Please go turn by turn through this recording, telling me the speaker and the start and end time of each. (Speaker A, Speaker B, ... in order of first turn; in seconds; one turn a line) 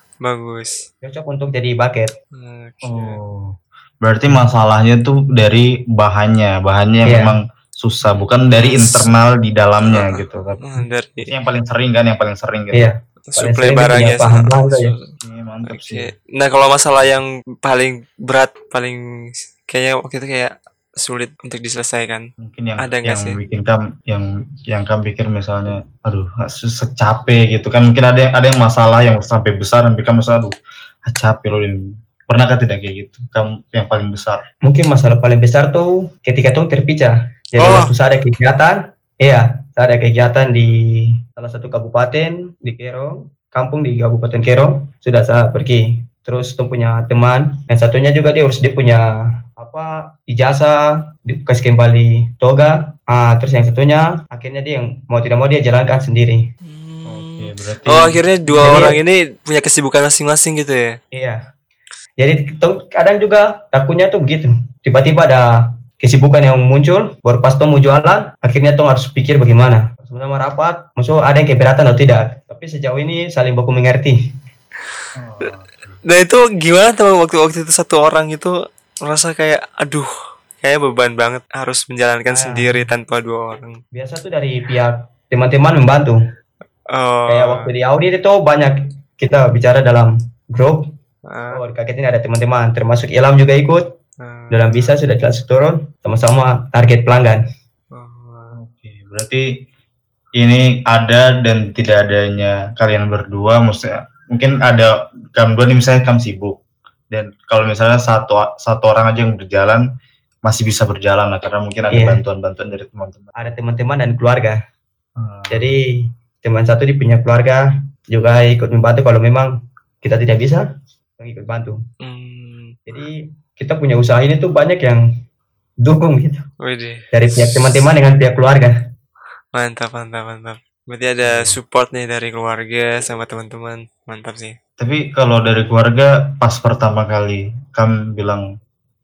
Speaker A: 0.2-0.8
Speaker B: 1.0-2.1
Speaker A: 2.3-3.2
Speaker C: 2.8-12.9
Speaker B: 7.0-7.3
Speaker A: 8.5-9.1
Speaker A: 9.9-11.3
Speaker B: 12.7-14.9
Speaker A: 13.3-15.1
Speaker C: 15.2-16.1
Speaker A: 15.7-22.2
Speaker C: 22.4-30.5
Speaker A: 22.8-23.4
Speaker C: 31.1-34.4
Speaker B: 34.6-56.4
Speaker A: 37.6-37.9
Speaker A: 56.6-61.0
Speaker C: 57.0-58.2
Speaker B: 58.5-59.0
Speaker B: 61.1-61.4
Speaker B: 62.2-65.5
Speaker B: 66.0-74.2
Speaker C: 75.2-76.0
Speaker A: 76.0-80.1
Speaker A: 80.6-83.8
Speaker B: 82.3-82.8
Speaker B: 83.9-86.2
Speaker A: 86.9-87.7
Speaker B: 87.3-90.9
Speaker A: 91.3-91.6
Speaker B: 91.5-93.8
Speaker A: 94.2-94.8
Speaker B: 94.5-97.4
Speaker A: 97.9-98.6
Speaker C: 98.5-99.6
Speaker C: 100.4-106.6
Speaker C: 107.1-109.8
Speaker C: 110.4-113.5
Speaker B: 111.9-112.2
Speaker B: 113.4-114.6
Speaker C: 115.2-115.7
Speaker B: 115.5-120.7
Speaker B: 121.2-121.8
Speaker A: 122.0-122.8
Speaker B: 122.9-125.0
Speaker B: 125.8-126.4
Speaker A: 126.6-127.8
Speaker B: 127.1-128.7
Speaker A: 129.5-134.6
Speaker C: 131.2-131.6
Speaker C: 134.8-138.4